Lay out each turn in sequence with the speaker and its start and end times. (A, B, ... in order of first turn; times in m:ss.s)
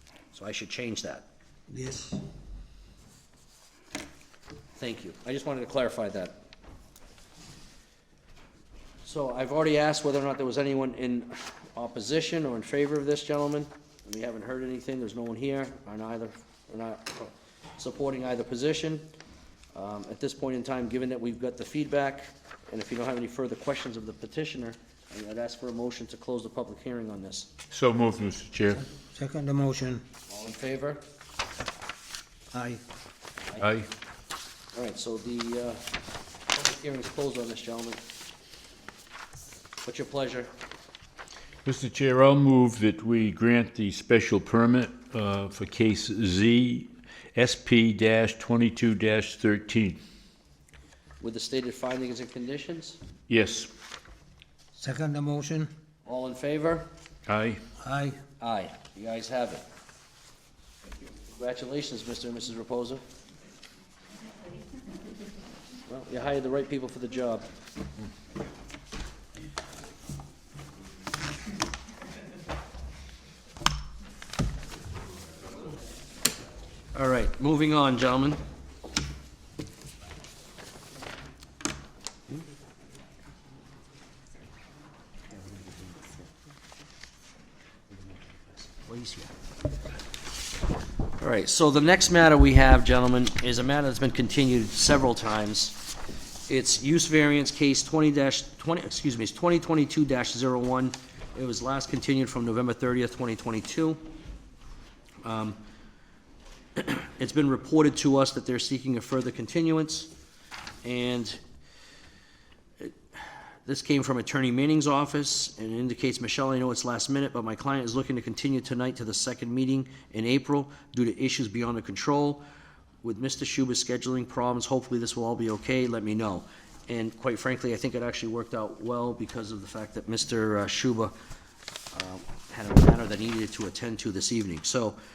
0:00.3-0:01.2 A
0:01.7-0:02.2 B
0:04.7-0:06.4 A
0:09.0-0:19.1 A
0:19.7-0:27.5 A
0:27.7-0:28.8 C
0:28.8-0:30.0 B
0:30.3-0:31.0 A
0:32.5-0:32.8 B
0:33.6-0:33.9 C
0:34.7-0:35.8 A
0:36.5-0:38.0 A
0:39.8-0:40.5 A
0:41.6-0:50.0 C
0:51.2-0:53.0 A
0:53.3-0:53.7 C
0:54.7-0:55.7 B
0:56.0-0:56.8 A
0:57.3-0:57.6 C
0:57.8-0:58.2 B
0:58.4-0:59.6 A
1:01.3-1:03.0 A
1:05.9-1:07.5 A
1:16.9-1:18.4 A
1:25.3-1:26.2 A
1:28.1-1:29.3 A
1:31.2-1:35.8 A
1:36.5-1:44.0 A
1:45.2-1:45.6 A
1:46.8-1:50.1 A
1:50.8-1:51.4 A
1:52.8-2:02.4 A
2:03.0-2:11.1 A
2:11.9-2:15.0 A